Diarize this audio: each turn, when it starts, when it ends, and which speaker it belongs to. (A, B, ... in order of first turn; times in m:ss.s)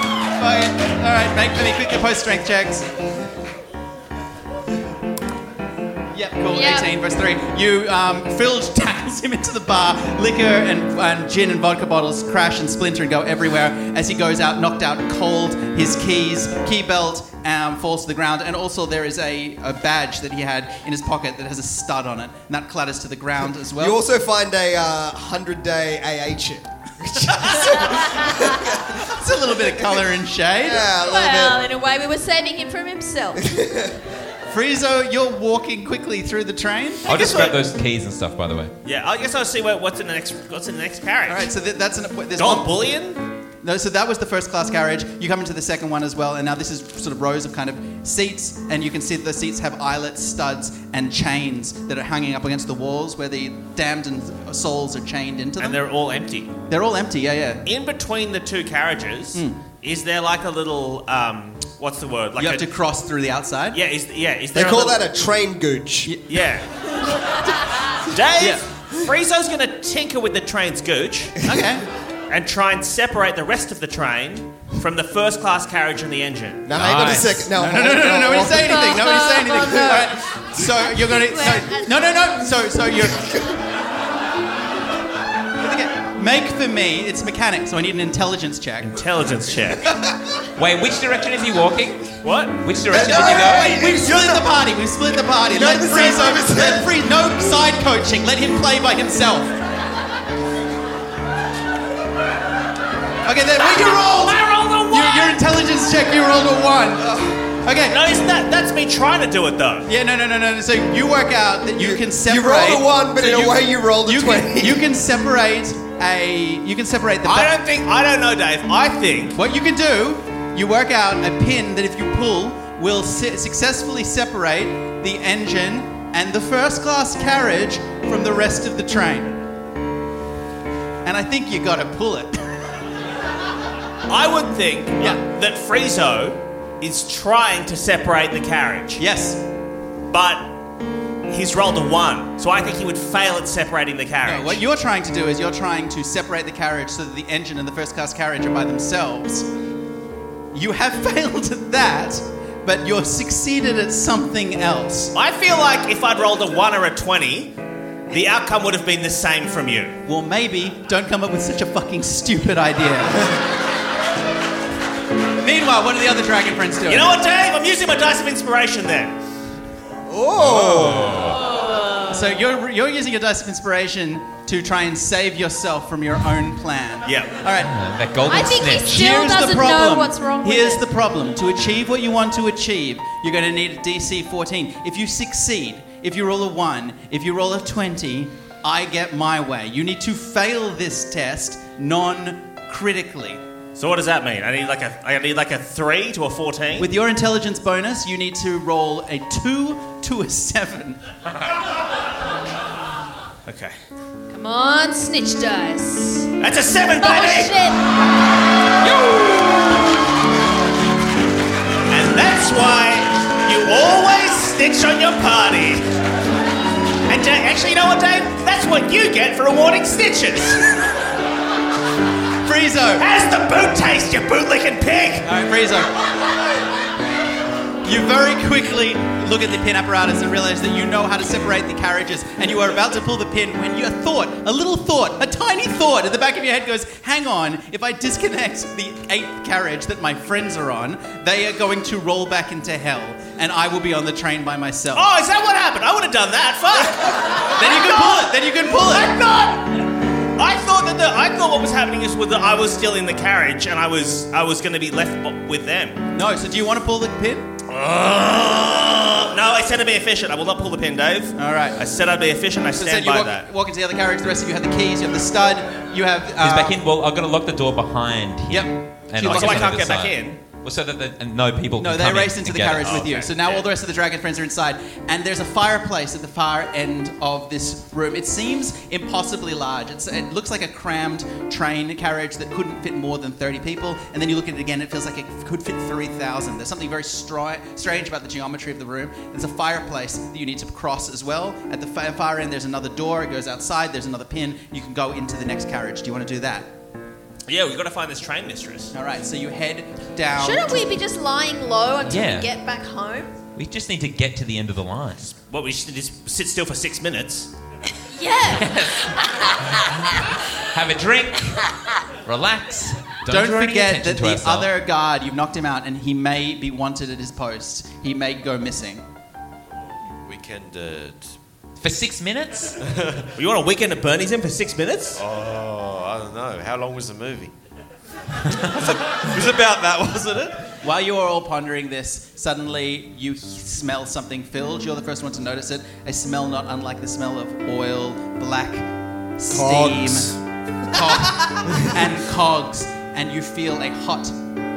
0:00.4-0:02.9 A
0:06.1-0:24.0 A
0:06.5-0:06.9 B
0:23.8-0:29.0 C
0:27.2-0:28.3 A
0:29.0-0:30.9 A
0:30.6-0:31.6 C
0:31.0-0:33.5 B
0:33.4-0:33.9 C
0:34.5-0:37.1 A
0:37.0-0:38.7 D
0:37.1-0:37.5 E
0:38.8-0:41.5 E
0:41.3-0:42.8 A
0:42.4-0:43.2 E
0:43.6-0:55.8 A
0:55.6-0:56.5 E
0:56.7-0:57.6 A
0:57.6-1:02.6 E
1:02.4-1:03.8 A
1:03.7-1:05.0 E
1:04.5-1:06.1 C
1:06.3-1:06.7 E
1:08.0-1:11.4 E
1:11.4-1:11.8 A
1:12.3-1:16.7 E
1:16.6-1:19.0 C
1:16.7-1:17.5 D
1:17.5-1:23.5 A
1:18.6-1:20.2 B
1:20.7-1:22.1 B
1:25.6-1:28.9 A
1:28.8-1:29.9 E
1:30.6-1:33.8 D
1:32.2-1:32.6 E
1:32.9-1:34.5 C
1:33.0-1:39.6 A
1:35.4-1:36.9 C
1:43.2-1:48.2 A
1:44.2-1:45.3 E
1:47.0-1:47.4 C
1:47.8-1:49.8 E
1:49.8-1:57.6 A
1:51.8-1:54.9 C
1:57.2-1:59.4 E
1:59.4-2:09.4 A
2:11.0-2:12.4 A
2:14.1-2:19.0 E
2:19.0-2:19.4 A
2:20.1-2:20.5 E
2:21.3-2:24.6 E
2:24.2-2:29.5 A
2:30.5-2:35.1 A
2:35.1-2:37.5 E
2:38.1-2:40.0 E
2:40.0-2:43.4 A
2:45.4-2:47.1 A
2:46.9-2:49.1 E
2:50.1-2:51.3 C
2:50.4-2:51.4 D
2:51.6-2:52.1 B
2:52.1-2:57.7 A
2:57.0-2:57.3 E
2:57.6-2:59.1 D
2:58.3-3:00.8 B
2:58.8-3:13.4 A
3:13.8-3:16.9 E
3:16.8-3:21.0 A
3:23.4-3:23.7 E
3:24.3-3:26.3 B
3:26.4-3:27.5 E
3:27.0-3:27.8 B
3:31.9-3:35.8 E
3:37.0-3:40.6 E
3:42.4-3:43.0 A
3:43.0-3:45.3 E
3:45.2-3:45.9 A
3:47.8-4:05.0 A
4:04.9-4:08.3 E
4:07.5-4:09.2 A
4:08.9-4:09.6 E
4:10.4-4:16.0 E
4:16.1-4:17.5 A
4:17.7-4:23.4 E
4:21.4-4:21.8 A
4:22.7-4:26.8 A
4:26.4-4:33.0 D
4:28.5-4:29.7 A
4:29.2-4:30.4 E
4:31.8-4:56.7 A
4:32.8-4:33.6 E
4:57.5-4:58.9 E
4:58.9-5:00.9 A
5:00.4-5:03.4 B
5:02.1-5:02.5 D
5:03.6-5:05.3 D
5:05.4-5:07.5 E
5:08.1-5:08.8 B
5:08.5-5:09.5 D
5:10.7-5:11.6 D
5:12.2-5:14.7 D
5:13.3-5:19.0 A
5:20.2-5:21.4 F
5:21.8-5:22.8 D
5:22.8-5:23.3 F
5:23.4-5:25.2 E
5:25.2-5:27.5 F
5:28.7-5:30.6 F
5:30.8-5:40.4 A
5:39.5-5:40.4 C
5:40.9-5:44.3 A